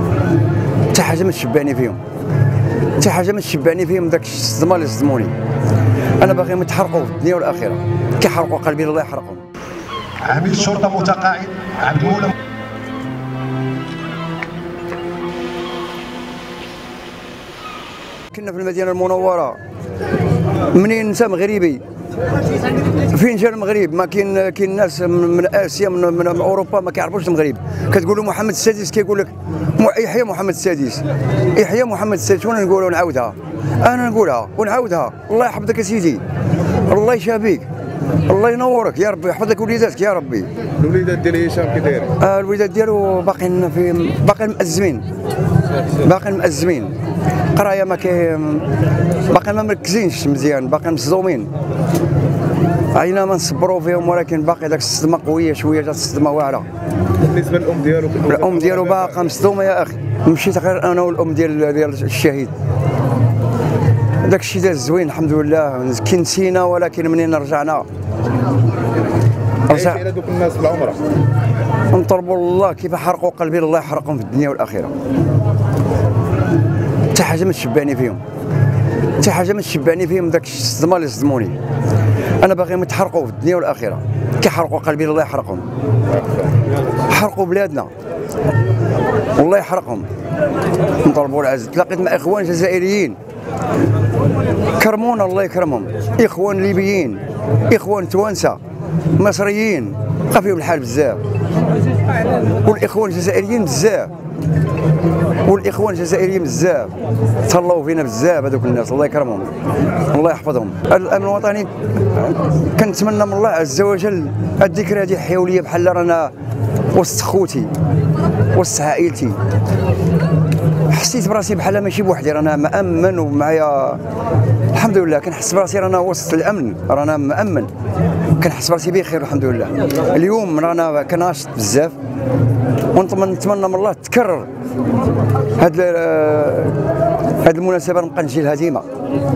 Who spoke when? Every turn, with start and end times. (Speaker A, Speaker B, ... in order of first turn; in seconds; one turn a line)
Speaker A: 0.9-2.0
Speaker A: 3.0-5.3
Speaker A: 6.2-9.4
Speaker B: 10.3-12.3
Speaker A: 18.3-19.6
Speaker A: 20.7-21.8
Speaker A: 23.0-31.0
Speaker A: 31.5-36.2
Speaker A: 36.9-37.7
Speaker A: 38.2-40.5
Speaker C: 40.8-42.1
Speaker A: 42.2-45.0
Speaker A: 46.0-47.0
Speaker A: 47.5-48.7
Speaker A: 49.3-51.5
Speaker A: 52.9-56.7
Speaker C: 57.2-59.2
Speaker A: 58.3-62.5
Speaker A: 64.2-67.9
Speaker A: 69.7-70.0
Speaker C: 69.7-71.0
Speaker A: 71.9-74.9
Speaker A: 77.1-78.2
Speaker A: 79.2-81.6
Speaker A: 82.4-85.6
Speaker A: 87.1-87.9
Speaker A: 89.3-90.1
Speaker A: 91.0-93.2
Speaker A: 94.7-98.6
Speaker A: 99.1-101.2
Speaker A: 102.6-104.1
Speaker A: 105.4-109.5
Speaker A: 110.1-116.3
Speaker A: 116.9-117.7
Speaker A: 118.5-119.4
Speaker A: 120.9-124.0
Speaker A: 124.7-127.7
Speaker A: 128.4-131.9
Speaker A: 132.9-134.5
Speaker A: 135.6-136.8
Speaker A: 137.4-138.9